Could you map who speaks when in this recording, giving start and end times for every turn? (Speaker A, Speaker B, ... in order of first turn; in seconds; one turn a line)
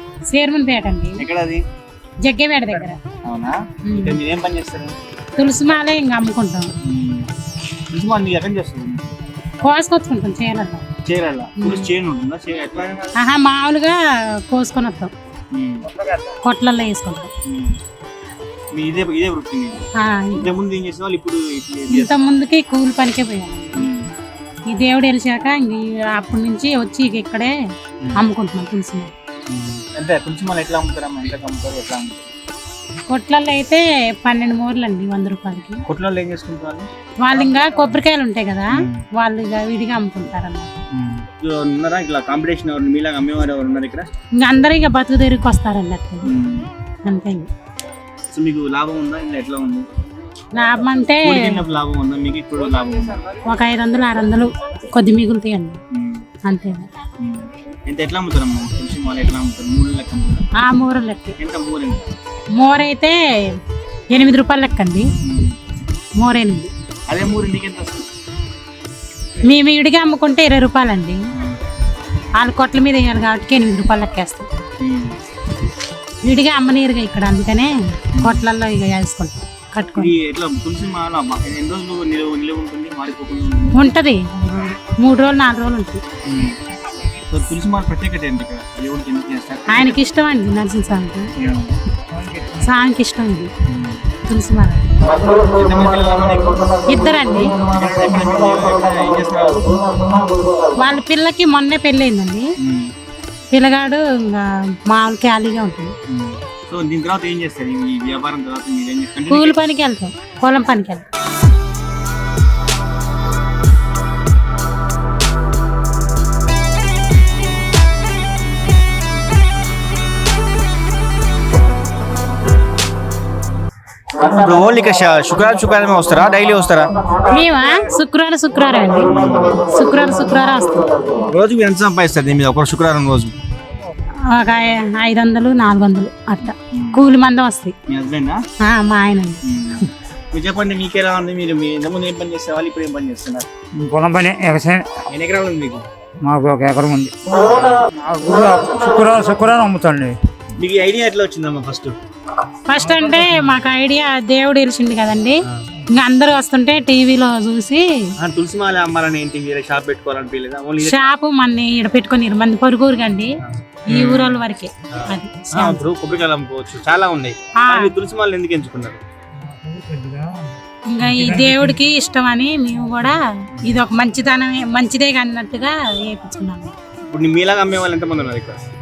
Speaker A: 0.3-1.2
Speaker B: 1.2-1.6
Speaker A: 2.2-3.0
Speaker B: 3.2-5.0
Speaker A: 3.8-4.2
Speaker A: 5.3-6.7
Speaker B: 6.8-7.3
Speaker B: 7.9-9.1
Speaker A: 9.6-10.9
Speaker B: 11.0-13.1
Speaker A: 11.6-11.9
Speaker A: 13.1-14.0
Speaker A: 14.5-15.1
Speaker B: 15.5-15.8
Speaker C: 15.9-16.2
Speaker A: 16.4-17.3
Speaker B: 17.4-17.8
Speaker B: 18.7-19.8
Speaker A: 20.0-20.5
Speaker B: 20.3-22.1
Speaker A: 21.9-23.9
Speaker B: 23.8-24.1
Speaker A: 24.7-27.5
Speaker A: 28.1-29.1
Speaker B: 29.5-32.3
Speaker A: 33.1-35.8
Speaker B: 35.9-36.9
Speaker A: 37.2-40.7
Speaker B: 38.8-39.0
Speaker B: 40.9-44.1
Speaker A: 44.4-46.3
Speaker B: 46.2-46.7
Speaker A: 47.0-47.5
Speaker B: 48.3-49.9
Speaker A: 50.5-51.6
Speaker B: 51.2-53.2
Speaker A: 53.4-55.8
Speaker B: 55.9-56.2
Speaker A: 56.4-56.9
Speaker B: 57.2-60.5
Speaker A: 60.5-61.4
Speaker B: 61.4-62.0
Speaker A: 62.5-63.2
Speaker A: 64.1-65.1
Speaker B: 65.2-65.5
Speaker A: 66.2-66.7
Speaker B: 67.1-68.0
Speaker A: 69.4-71.2
Speaker A: 72.4-74.5
Speaker B: 74.8-75.2
Speaker A: 76.2-80.1
Speaker B: 78.1-78.5
Speaker B: 79.9-83.9
Speaker A: 83.7-86.0
Speaker B: 86.2-86.5
Speaker B: 87.3-90.0
Speaker A: 89.7-91.3
Speaker B: 91.3-91.7
Speaker C: 92.1-92.6
Speaker A: 92.6-93.5
Speaker B: 93.7-94.0
Speaker A: 94.2-94.9
Speaker B: 95.2-96.9
Speaker A: 96.9-97.6
Speaker B: 97.6-100.1
Speaker A: 100.7-102.5
Speaker B: 102.6-102.9
Speaker A: 103.5-105.9
Speaker B: 106.1-109.6
Speaker A: 109.3-111.0
Speaker B: 124.1-126.9
Speaker A: 127.2-131.1
Speaker B: 129.0-129.6
Speaker B: 131.2-133.3
Speaker A: 134.3-137.7
Speaker B: 136.5-137.0
Speaker B: 137.9-138.4
Speaker A: 138.6-139.4
Speaker B: 139.4-143.5
Speaker C: 143.8-144.9
Speaker B: 145.1-145.8
Speaker C: 146.2-150.2
Speaker B: 147.5-147.8
Speaker B: 150.6-151.9
Speaker A: 152.7-157.8
Speaker C: 152.9-153.3
Speaker B: 158.2-161.1
Speaker A: 160.8-163.4
Speaker B: 163.8-164.4
Speaker A: 163.9-165.8
Speaker B: 164.9-169.0
Speaker A: 167.6-167.9
Speaker C: 169.5-170.4
Speaker A: 170.9-176.7
Speaker C: 171.0-171.8
Speaker B: 177.1-178.6